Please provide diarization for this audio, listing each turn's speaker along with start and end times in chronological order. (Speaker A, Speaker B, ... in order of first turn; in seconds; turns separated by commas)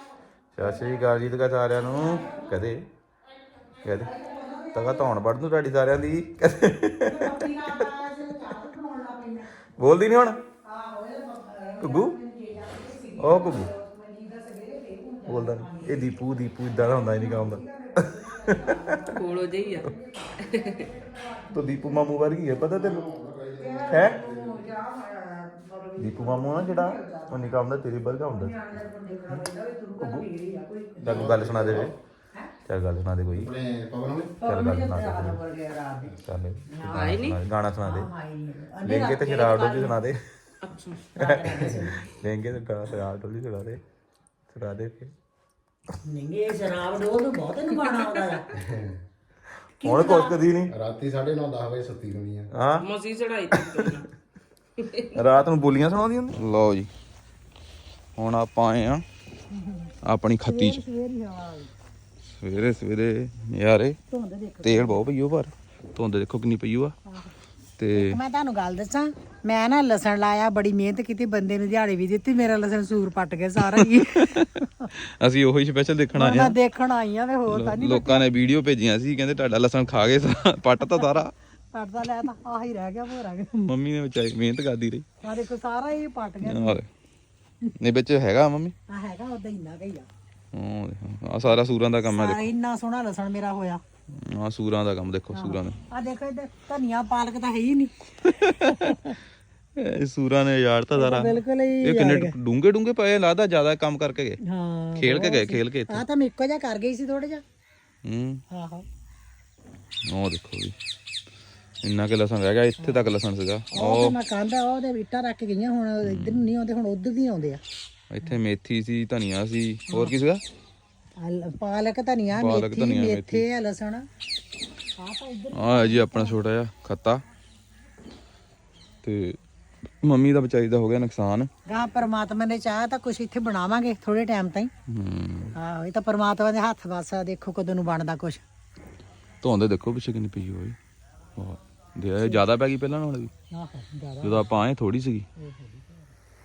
Speaker A: 0.6-2.9, Speaker B: 0.6-1.0, Speaker B: 2.0-2.5, Speaker A: 3.8-4.2, Speaker B: 4.0-5.1, Speaker A: 4.7-7.8, Speaker B: 7.0-9.5, Speaker A: 9.8-10.4, Speaker B: 10.6-22.2, Speaker A: 11.8-12.2, Speaker A: 13.2-13.7, Speaker A: 15.3-19.0, Speaker C: 19.1-20.9, Speaker A: 21.5-23.2, Speaker D: 22.8-24.6, Speaker B: 23.6-31.2, Speaker A: 23.8-24.2, Speaker A: 26.0-29.4, Speaker A: 30.0-30.3, Speaker A: 31.0-31.9, Speaker D: 31.1-31.9, Speaker A: 32.6-33.6, Speaker D: 33.5-34.3, Speaker B: 34.4-36.2, Speaker A: 34.4-35.4, Speaker A: 36.2-38.1, Speaker B: 36.7-37.2, Speaker C: 36.9-37.4, Speaker B: 37.8-40.0, Speaker A: 38.8-40.2, Speaker C: 40.6-41.1, Speaker B: 41.1-42.1, Speaker A: 41.2-43.8, Speaker A: 44.5-45.1, Speaker B: 46.0-48.5, Speaker D: 48.5-49.0, Speaker B: 49.8-50.4, Speaker A: 49.8-50.8, Speaker D: 50.7-52.5, Speaker A: 52.5-52.9, Speaker C: 52.8-54.1, Speaker A: 53.5-54.1, Speaker A: 55.0-56.9, Speaker A: 58.2-59.0, Speaker B: 59.5-59.9, Speaker A: 60.0-60.8, Speaker B: 60.4-61.7, Speaker A: 62.3-64.0, Speaker B: 64.1-65.0, Speaker A: 64.6-67.0, Speaker B: 67.1-67.3, Speaker A: 67.8-68.2, Speaker B: 67.9-74.9, Speaker A: 73.6-76.5, Speaker B: 76.2-78.3, Speaker A: 77.5-81.3, Speaker B: 81.7-83.7, Speaker A: 83.7-85.1, Speaker B: 85.2-86.8, Speaker A: 86.5-86.9, Speaker A: 87.8-88.8, Speaker B: 88.9-90.1, Speaker A: 90.5-92.4, Speaker B: 92.0-93.8, Speaker A: 94.1-95.8, Speaker B: 95.3-99.2, Speaker A: 98.2-99.1, Speaker A: 99.8-104.4, Speaker B: 101.0-102.3, Speaker B: 104.5-107.4, Speaker A: 105.0-106.1, Speaker A: 108.0-108.4, Speaker B: 108.5-108.8, Speaker A: 110.1-110.8, Speaker A: 111.8-114.2, Speaker B: 112.8-113.1, Speaker B: 113.7-117.6, Speaker A: 116.0-116.5, Speaker A: 118.1-120.4, Speaker B: 119.9-120.2, Speaker B: 121.2-124.0, Speaker A: 122.3-123.5, Speaker B: 125.0-126.4, Speaker A: 125.5-127.2, Speaker A: 129.0-129.4, Speaker A: 130.0-131.5, Speaker B: 131.7-134.7, Speaker A: 134.9-135.5, Speaker B: 135.6-138.4, Speaker A: 139.4-140.8, Speaker A: 141.4-143.3, Speaker B: 143.5-144.5, Speaker A: 144.2-145.3, Speaker B: 145.4-146.0